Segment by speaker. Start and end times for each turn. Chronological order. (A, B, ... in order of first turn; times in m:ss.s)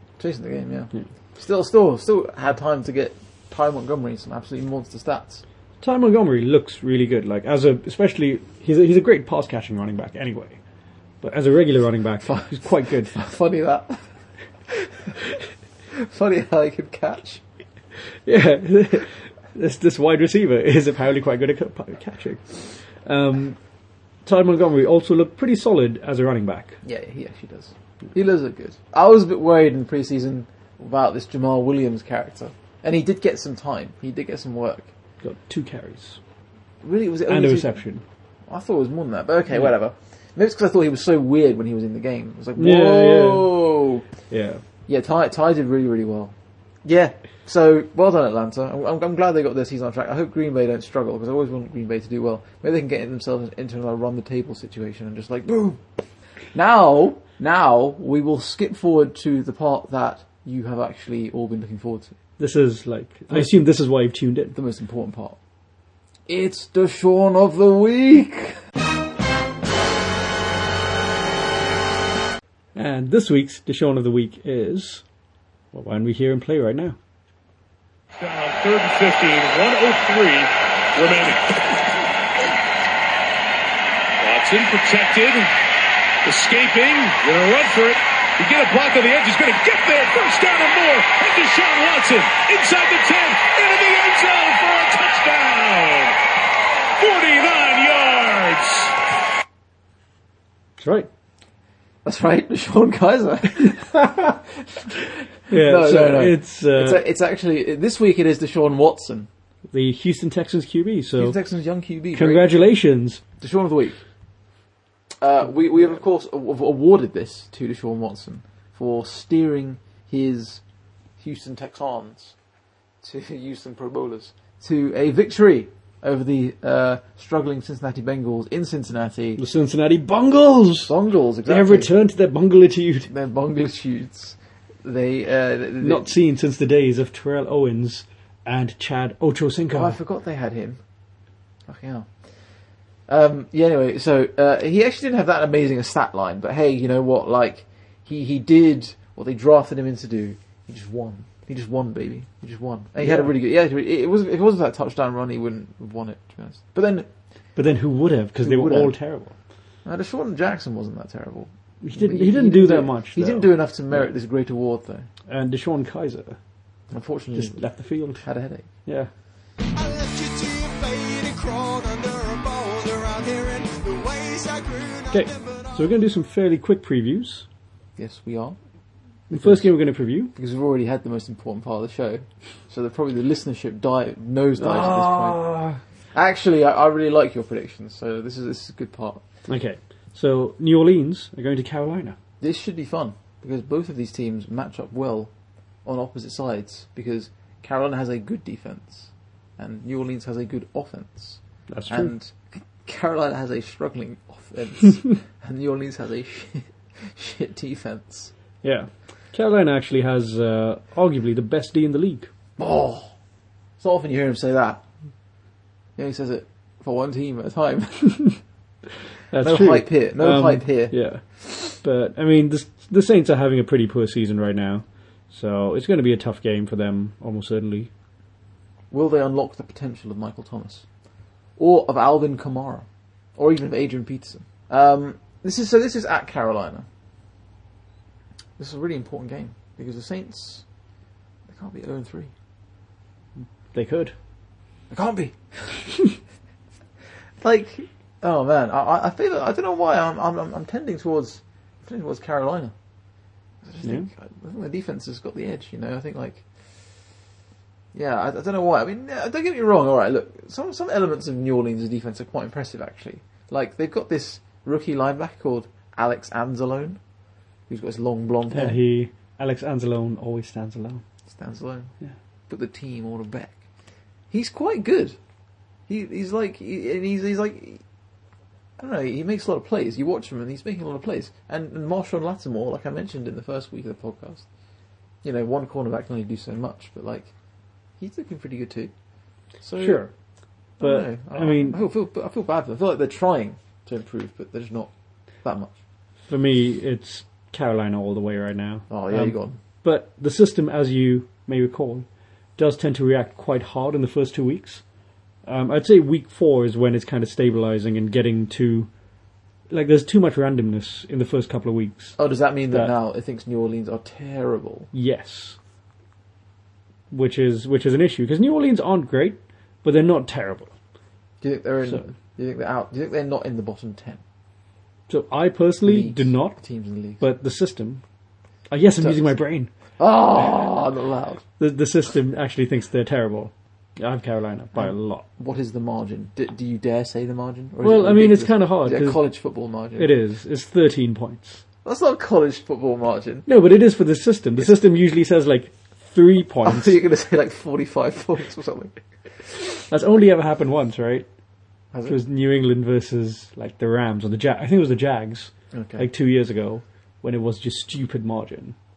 0:00.2-0:05.4 A
0:05.8-0:10.6 B
0:11.2-0:13.2 B
0:12.2-0:14.0 A
0:15.9-0:17.4 A
0:18.2-0:23.6 B
0:24.2-0:26.8 B
0:26.8-0:34.9 A
0:35.2-0:36.2 B
0:36.8-0:37.8 A
0:37.3-0:38.0 B
0:38.5-0:44.0 A
0:42.6-0:43.5 B
0:44.3-0:44.6 B
0:44.9-0:55.8 A
0:56.5-1:02.1 A
1:02.4-1:04.6 B
1:03.3-1:03.6 A
1:04.5-1:05.4 A
1:06.3-1:08.6 A
1:12.8-1:15.0 B
1:15.7-1:17.0 B
1:18.2-1:21.8 C
1:24.2-1:25.5 C
1:26.2-1:36.2 C
1:37.0-1:39.0 C
1:40.8-1:41.1 B
1:42.0-1:49.3 A
1:45.5-1:47.0 B
1:49.7-1:51.4 B
1:51.2-1:52.5 A
1:52.2-1:53.2 B
1:53.4-1:54.0 A
1:55.2-2:00.6 A
2:01.2-2:02.4 A
2:03.0-2:09.4 A
2:09.4-2:10.9 B
2:10.9-2:11.9 A
2:11.5-2:13.1 B
2:13.1-2:16.1 A
2:15.8-2:20.0 B
2:19.7-2:20.8 A
2:21.7-2:22.1 A
2:23.1-2:37.1 A
2:33.0-2:33.3 B
2:37.6-2:39.4 B
2:38.4-2:38.9 A
2:39.8-2:45.1 A
2:41.8-2:44.1 B
2:45.3-2:46.4 B
2:46.9-2:47.6 A
2:47.3-2:48.3 B
2:48.2-2:48.7 A
2:48.8-2:49.1 B
2:49.8-2:55.9 D
2:55.1-2:57.5 B
2:58.0-2:58.6 A
2:59.3-3:00.3 B
2:59.3-2:59.7 A
3:00.3-3:05.5 A
3:04.6-3:05.8 B
3:06.1-3:09.2 A
3:09.5-3:12.2 B
3:12.4-3:15.3 A
3:15.8-3:28.3 A
3:21.7-3:22.1 B
3:28.6-3:32.3 B
3:32.6-3:33.1 A
3:33.8-3:34.8 A
3:36.0-3:38.3 A
3:39.3-3:41.2 B
3:39.4-3:41.0 A
3:41.8-3:47.9 B
3:48.9-3:50.8 A
3:51.6-3:52.9 A
3:53.4-3:56.9 A
3:58.6-4:00.6 A
4:01.5-4:02.3 A
4:03.7-4:04.2 B
4:04.9-4:05.9 A
4:07.4-4:12.7 A
4:13.6-4:16.4 A
4:13.8-4:14.1 B
4:17.9-4:27.0 A
4:27.7-4:28.8 A
4:28.5-4:31.0 B
4:31.3-4:31.9 A
4:32.5-4:33.6 A
4:34.3-4:35.2 A
4:35.9-4:37.8 A
4:38.8-4:44.5 A
4:45.2-4:47.3 A
4:48.0-4:48.9 A
4:49.6-4:50.1 A
4:49.8-4:50.1 B
4:50.8-4:54.9 A
4:50.8-4:51.8 B
4:55.4-4:55.8 A
4:56.3-5:02.1 B
4:58.9-4:59.6 A
5:02.6-5:04.8 B
5:05.4-5:08.9 B
5:09.7-5:12.2 B
5:12.2-5:14.9 A
5:14.9-5:15.6 B
5:17.1-5:20.7 B
5:21.4-5:24.2 A
5:25.1-5:26.6 B
5:25.8-5:27.2 A
5:27.2-5:28.0 B
5:28.7-5:29.7 B
5:29.0-5:29.4 A
5:30.0-5:31.4 A
5:31.6-5:35.3 B
5:34.8-5:40.1 A
5:37.8-5:39.2 B
5:40.0-5:41.6 B
5:41.8-5:43.5 A
5:43.5-5:47.0 B
5:46.6-5:49.0 A
5:49.9-5:51.3 B
5:51.9-5:52.2 A
5:52.1-5:58.8 B
5:55.7-5:56.1 A